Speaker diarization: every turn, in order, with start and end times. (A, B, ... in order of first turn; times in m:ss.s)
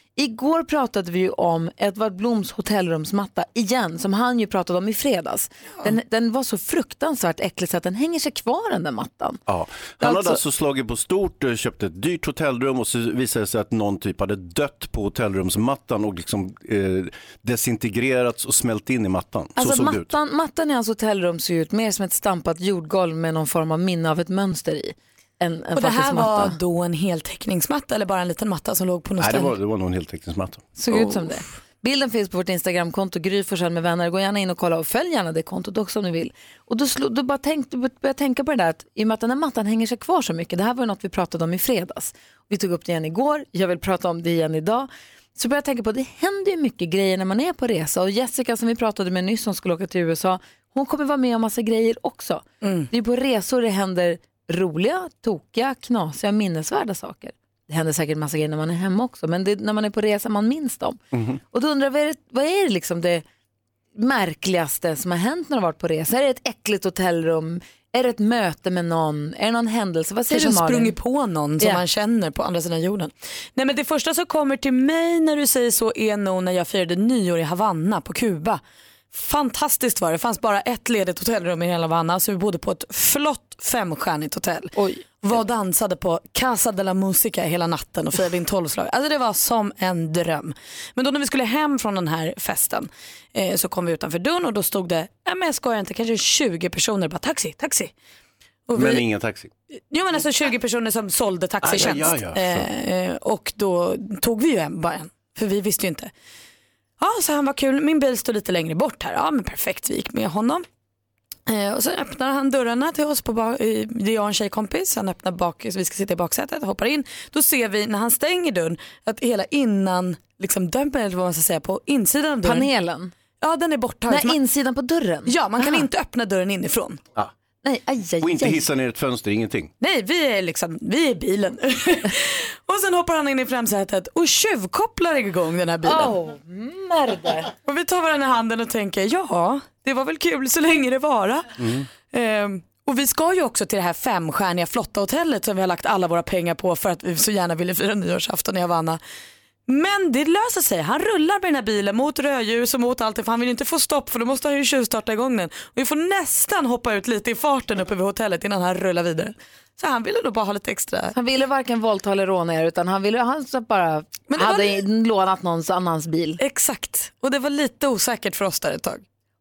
0:00.2-0:09.4 A
0:09.5-0:20.1 B
0:10.0-0:10.4 A
0:19.6-0:26.6 A
0:25.7-0:29.5 C
0:29.2-0:30.7 B
0:30.8-1:01.0 A
0:31.0-0:31.3 C
0:52.6-0:52.9 C
1:01.1-1:01.4 B
1:01.5-1:03.2 A
1:04.0-1:10.9 A
1:10.3-1:18.6 C
1:19.1-1:37.9 C
1:24.8-1:25.0 A
1:38.7-1:39.0 C
1:38.7-1:39.5 B
1:39.7-1:46.1 C
1:41.6-1:42.7 B
1:47.0-1:50.6 C
1:51.5-2:02.7 C
2:02.4-2:03.1 A
2:03.4-2:04.4 C
2:04.1-2:05.8 A
2:05.2-2:07.0 C
2:07.6-2:08.6 A
2:08.2-2:09.7 B
2:09.8-2:16.2 C
2:15.8-2:17.5 A
2:17.6-2:29.0 C
2:21.6-2:21.8 B
2:29.7-2:41.1 C
2:41.1-2:46.4 A
2:44.3-2:44.8 C
2:46.4-2:49.0 C